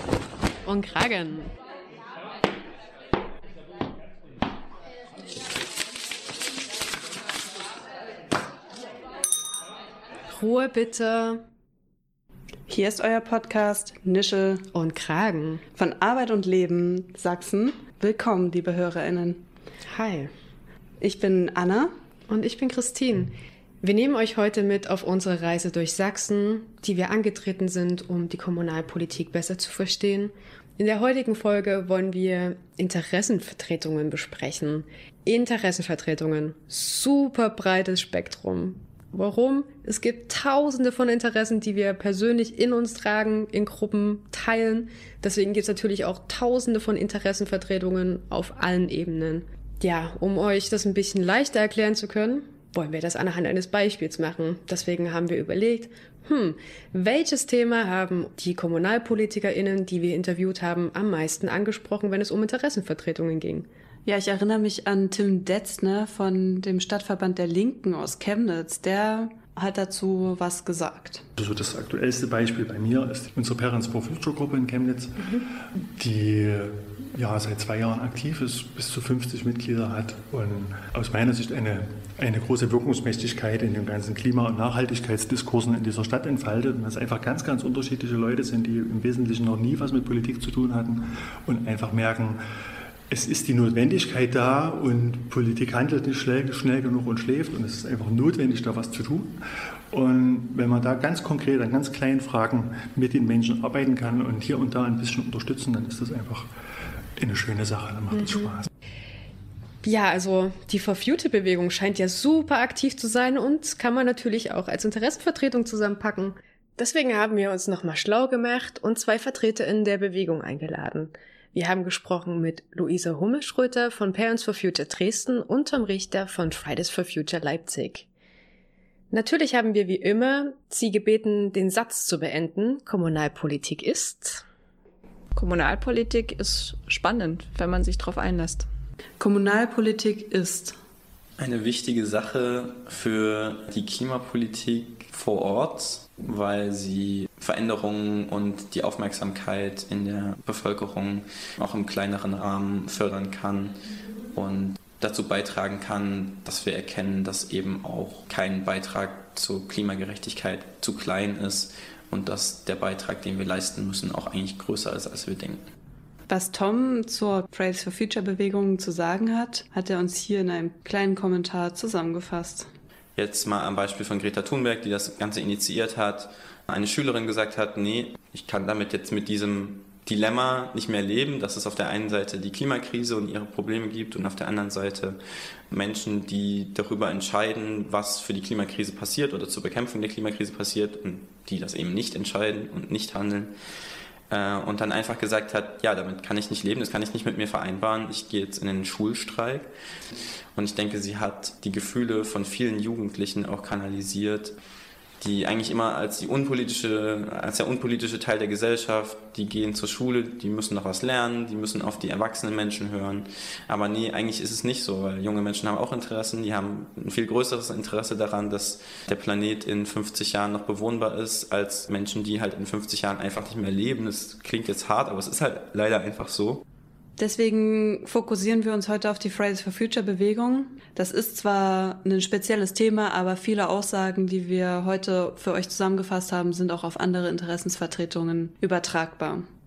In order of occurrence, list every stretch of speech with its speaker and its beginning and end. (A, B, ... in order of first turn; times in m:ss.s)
0:00.6-0:01.5 A
0:10.3-0:11.4 A
0:12.7-0:14.7 B
0:14.7-0:15.6 A
0:15.8-0:19.4 B
0:19.9-0:20.3 A
0:21.0-0:21.9 B
0:22.3-1:03.7 A
1:04.0-1:11.2 B
1:11.4-1:32.4 C
1:33.1-1:39.4 C
1:39.9-1:46.5 C
1:47.2-1:48.7 C
1:48.1-1:48.5 A
1:49.8-2:08.1 A
2:09.1-2:14.4 A
2:15.4-2:18.7 D
2:19.2-2:20.8 B
2:21.4-2:33.8 E
2:34.3-2:45.6 E
2:46.3-2:52.7 B
2:53.2-3:05.2 E
3:05.7-3:13.5 E
3:14.3-3:19.7 E
3:20.5-3:24.6 E
3:25.2-3:46.6 E
3:47.2-3:59.5 B